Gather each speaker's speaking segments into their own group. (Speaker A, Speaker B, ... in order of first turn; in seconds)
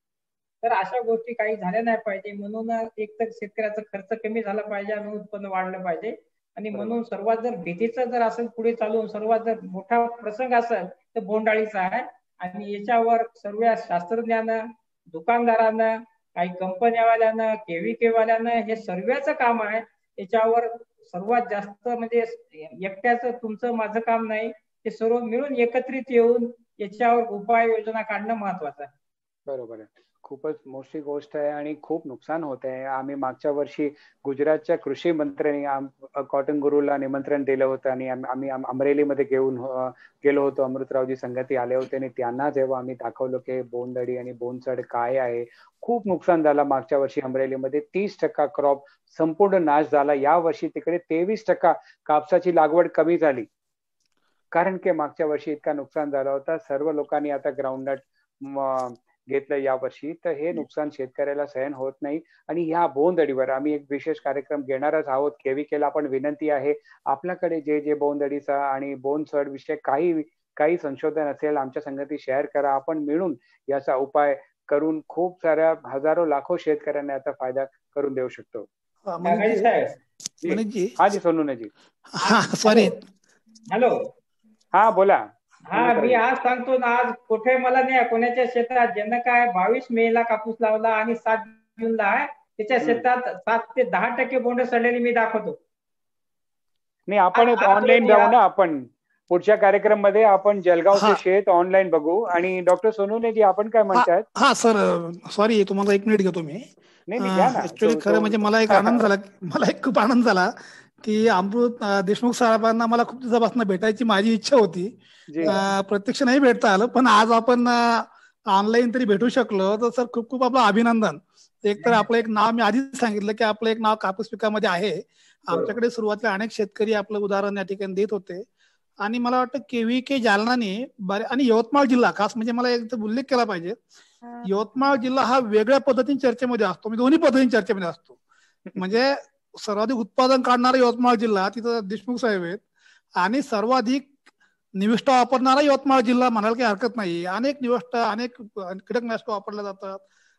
Speaker A: 0.6-28.9, 79.2-79.9, 82.2-83.0, 85.7-95.5, 97.3-98.3
Speaker B: 29.5-53.5, 54.5-78.7, 80.4-81.7, 84.7-86.2, 92.8-93.1, 97.1-104.2, 107.1-109.1, 138.7-139.0
Speaker C: 79.1-79.7, 80.5-81.0, 82.1-83.0, 103.9-106.6, 107.2-114.9, 115.5-128.4, 129.0-133.8, 134.4-138.2, 138.8-142.6, 143.2-144.1, 144.8-150.0